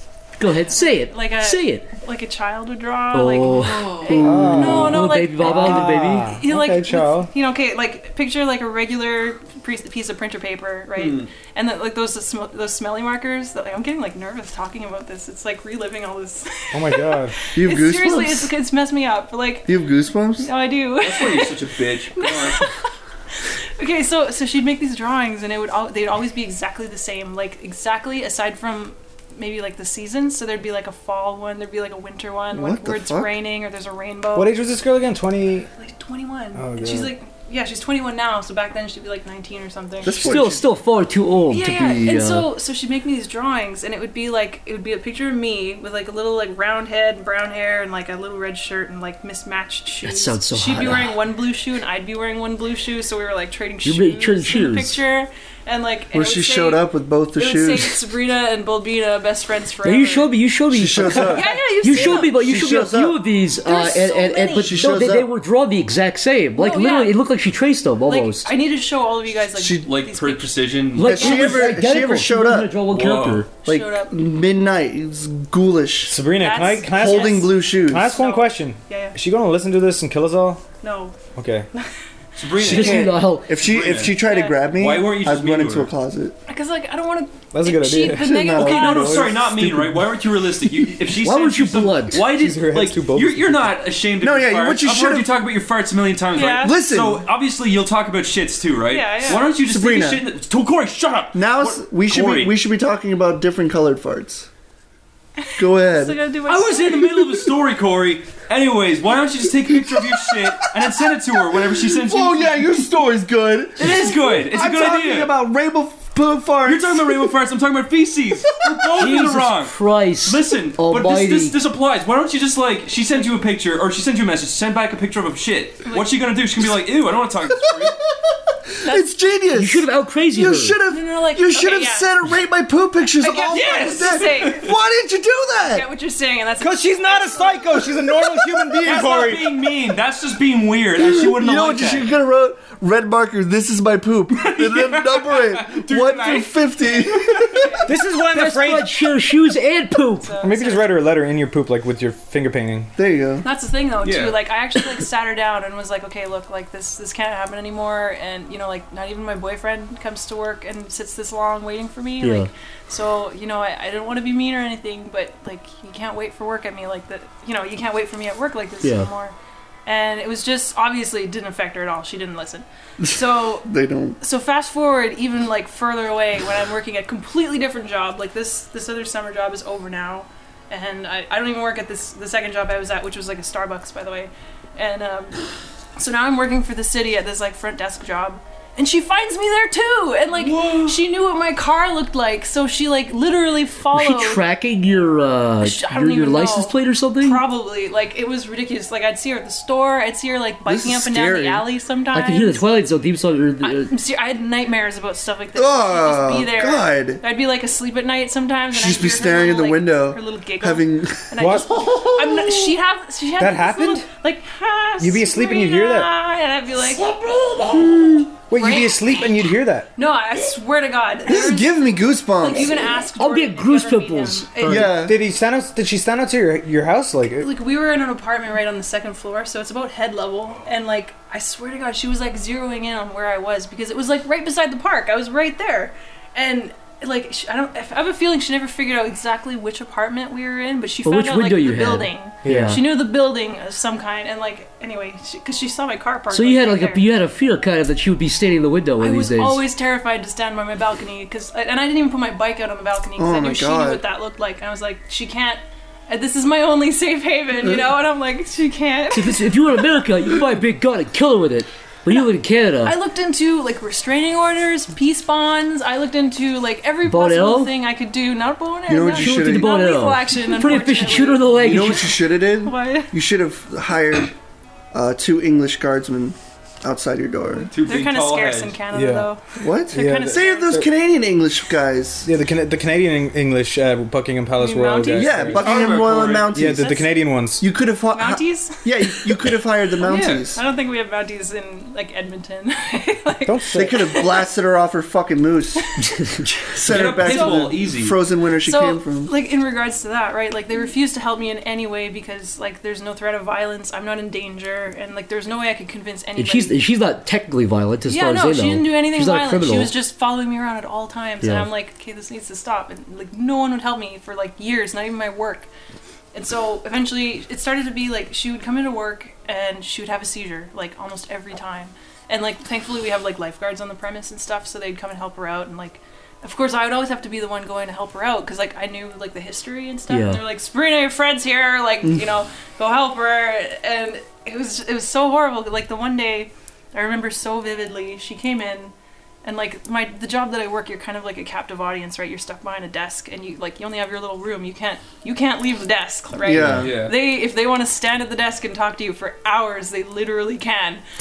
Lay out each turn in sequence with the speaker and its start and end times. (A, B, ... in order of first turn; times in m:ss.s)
0:00.4-0:01.9 A
0:00.4-0:19.8 B
0:03.1-0:06.4 A
0:03.7-0:04.2 C
0:04.2-0:07.3 D
0:11.0-0:11.3 C
0:16.7-0:17.4 D
0:17.5-0:18.5 E
0:19.7-0:20.5 E
0:20.4-0:34.5 B
0:21.0-0:22.7 C
0:32.5-0:33.3 E
0:34.4-0:35.7 D
0:35.8-0:40.2 B
0:36.6-0:37.1 D
0:40.0-0:40.7 E
0:40.2-0:42.5 A
0:41.5-0:56.8 B
0:50.0-0:51.2 A
0:53.8-0:55.0 A
0:56.1-0:58.0 E
0:57.4-1:00.3 B
0:59.8-1:08.5 A
1:00.7-1:03.2 E
1:01.1-1:02.3 B
1:03.6-1:04.9 B
1:04.5-1:05.3 E
1:06.5-1:07.2 B
1:08.0-1:10.7 B
1:09.5-1:09.9 E
1:09.8-1:11.7 C
1:10.9-1:13.5 A
1:11.0-1:12.7 E
1:12.9-1:13.4 C
1:13.6-1:14.3 B
1:13.6-1:16.2 E
1:16.1-1:20.6 D
1:16.4-1:19.2 B
1:16.9-1:18.1 E
1:20.8-1:21.2 B
1:21.4-1:21.7 D
1:22.4-1:25.9 C
1:22.6-1:26.4 E
1:22.6-1:23.5 A
1:24.2-1:24.6 B
1:26.5-1:29.4 B
1:27.5-1:28.5 D
1:28.1-1:30.1 E
1:28.6-1:42.5 C
1:31.2-1:32.2 A
1:32.2-1:33.7 D
1:34.2-1:35.3 E
1:36.3-1:36.8 B
1:36.4-1:37.2 E
1:38.9-1:39.4 B
1:39.3-1:40.2 E
1:41.3-1:44.5 E
1:45.4-1:47.2 B
1:45.6-1:46.2 E
1:46.5-1:52.8 C
1:49.6-1:57.4 E
1:53.8-1:55.3 C
1:56.6-2:08.0 C
1:58.9-2:01.6 A
2:05.8-2:06.2 B
2:07.6-2:07.9 E
2:08.8-2:15.8 E
2:09.5-2:10.8 A
2:10.9-2:12.1 B
2:13.2-2:14.7 B
2:13.8-2:14.5 C
2:15.7-2:18.1 B
2:16.6-2:19.6 D
2:18.8-2:22.1 C
2:20.9-2:27.7 E
2:24.3-2:27.7 C
2:27.5-2:27.9 B
2:27.8-2:28.9 D
2:28.3-2:30.3 A
2:30.2-2:30.9 B
2:30.4-2:32.9 D
2:33.0-2:33.4 E
2:33.4-2:49.3 B
2:34.0-2:34.4 C
2:42.2-2:42.5 A
2:48.8-2:49.1 A
2:49.9-2:53.7 B
2:53.0-2:54.2 E
2:54.2-3:05.4 B
3:06.0-3:14.4 B
3:10.4-3:11.0 C
3:13.9-3:17.4 A
3:15.6-3:22.6 B
3:20.6-3:21.6 E
3:22.1-3:23.9 A
3:23.6-3:37.1 B
3:25.6-3:27.2 E
3:28.7-3:31.3 E
3:31.4-3:32.1 D
3:33.4-3:34.0 D
3:35.0-3:36.1 D
3:38.5-3:39.9 D
3:38.5-3:45.0 B
3:41.3-3:42.9 E
3:43.2-3:44.9 A
3:44.6-3:45.2 E
3:45.0-3:47.5 D
3:47.4-4:07.1 B
4:01.0-4:02.8 A
4:02.4-4:02.8 D
4:06.3-4:09.6 A
4:09.0-4:19.6 B
4:13.2-4:14.0 E
4:17.6-4:17.9 E
4:19.1-4:22.9 A
4:22.8-4:33.1 B
4:27.1-4:27.7 A
4:28.9-4:29.7 E
4:29.2-4:32.1 A
4:31.6-4:34.3 E
4:34.9-4:37.7 E
4:37.7-4:38.8 C
4:37.8-4:39.4 B
4:38.9-4:39.3 D
4:39.6-4:42.3 E
4:39.9-4:40.8 B
4:39.9-4:40.9 D
4:42.2-4:45.9 D
4:44.6-4:45.6 B
4:45.1-4:47.0 E
4:45.5-4:46.7 C
4:46.5-4:47.6 D
4:46.6-4:47.2 B
4:47.6-4:50.6 E
4:48.1-4:49.3 B
4:50.0-4:54.4 B
4:50.0-4:50.5 C
4:53.4-4:54.0 D
4:53.7-4:55.8 E
4:55.8-4:56.1 B
4:56.7-4:59.3 E
4:56.9-4:58.2 C
4:57.0-4:57.7 B
4:58.6-5:06.7 B
5:06.4-5:09.9 A
5:08.1-5:15.7 B
5:11.4-5:11.7 A
5:16.3-5:38.9 B
5:30.1-5:30.4 A
5:39.4-5:51.0 B
5:46.4-5:46.9 E
5:46.7-5:47.1 C